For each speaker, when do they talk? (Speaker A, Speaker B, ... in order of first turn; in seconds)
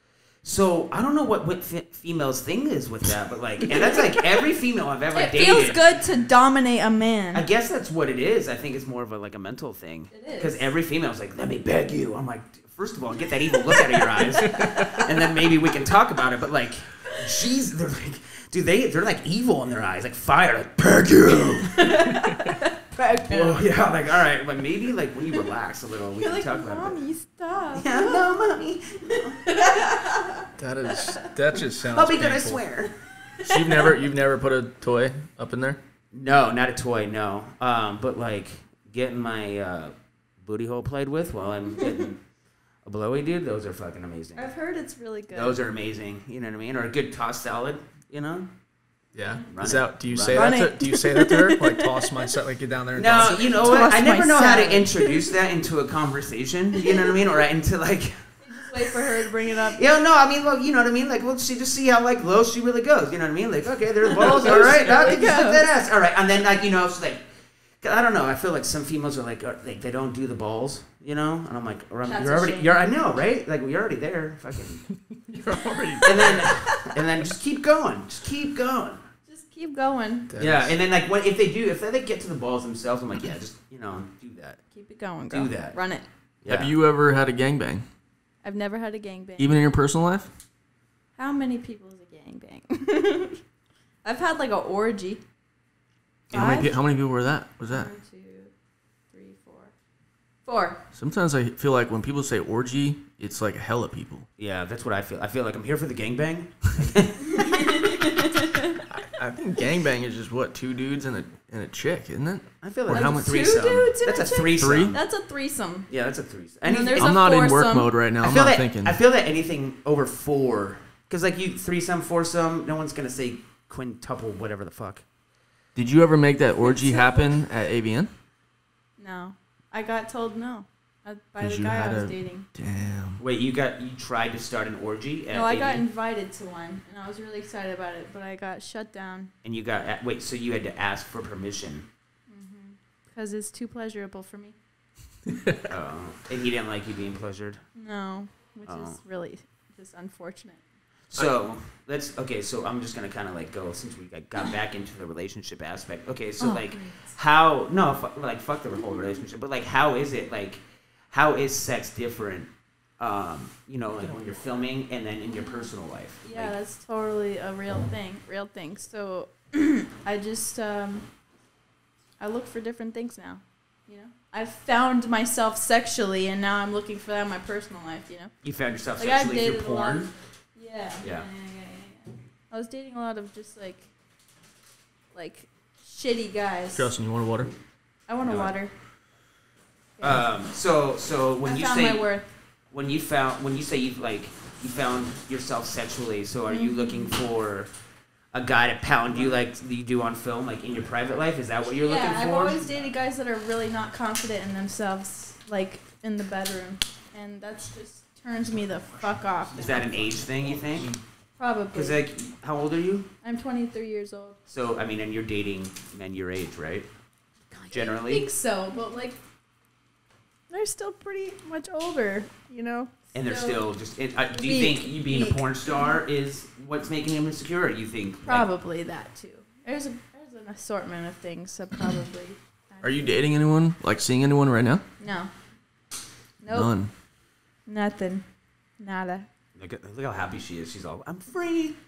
Speaker A: 0.4-6.0, 7.3-22.0, 23.3-27.0, 27.7-29.5, 31.8-32.9, 36.1-42.2, 42.9-44.5, 45.3-48.5, 49.5-50.6, 53.0-74.9, 76.0-79.0, 80.4-84.6, 85.3-85.8, 86.4-86.7, 104.4-108.0, 112.6-115.0, 115.9-117.2, 118.2-125.0, 133.2-135.8, 139.4-141.9, 145.7-147.6, 148.7-149.0, 151.1-166.5, 178.4-180.1, 181.0-181.3, 188.3-188.5, 190.0-192.1, 192.7-197.7, 198.3-202.7, 209.6-210.9, 211.7-213.1, 214.5-216.9, 217.7-218.3, 223.1-228.5, 239.6-241.8
Speaker B: 3.7-4.0, 5.1-7.5, 10.1-10.7, 21.4-23.6, 26.2-28.3, 29.1-31.2, 33.4-33.9, 44.4-45.6, 50.3-52.2, 53.2-55.3, 56.8-57.1, 58.4-59.8, 64.1-65.7, 72.1-72.8, 76.0-76.9, 79.3-80.3, 84.7-86.0, 88.4-89.6, 91.2-93.4, 94.0-95.2, 96.3-96.8, 97.7-98.5, 99.1-99.7, 100.5-100.8, 107.2-108.8, 112.9-115.9, 116.7-117.9, 126.7-127.2, 129.0-132.5, 135.3-139.3, 142.3-144.6, 147.8-150.6, 156.4-157.1, 165.3-165.7, 166.2-171.1, 172.2-178.3, 179.0-183.9, 185.1-186.9, 188.1-188.7, 191.4-192.3, 196.5-197.2, 201.8-209.7, 211.4-212.0, 213.2-214.4, 217.5-219.2, 220.5-223.7, 224.3-226.0, 228.2-233.1, 235.0-235.3, 236.4-236.7, 237.7-238.2, 238.8-239.3
Speaker C: 14.5-15.1, 30.6-32.6, 33.4-35.8, 49.1-53.5, 64.8-65.1, 75.3-76.7, 80.3-80.8, 86.5-87.8, 89.4-90.3, 96.3-97.9, 100.9-104.3, 108.9-113.5, 114.6-115.0, 117.0-119.0, 125.8-128.1, 131.4-133.2, 145.3-145.7, 186.7-187.5, 209.6-211.0, 232.8-234.8, 236.5-236.9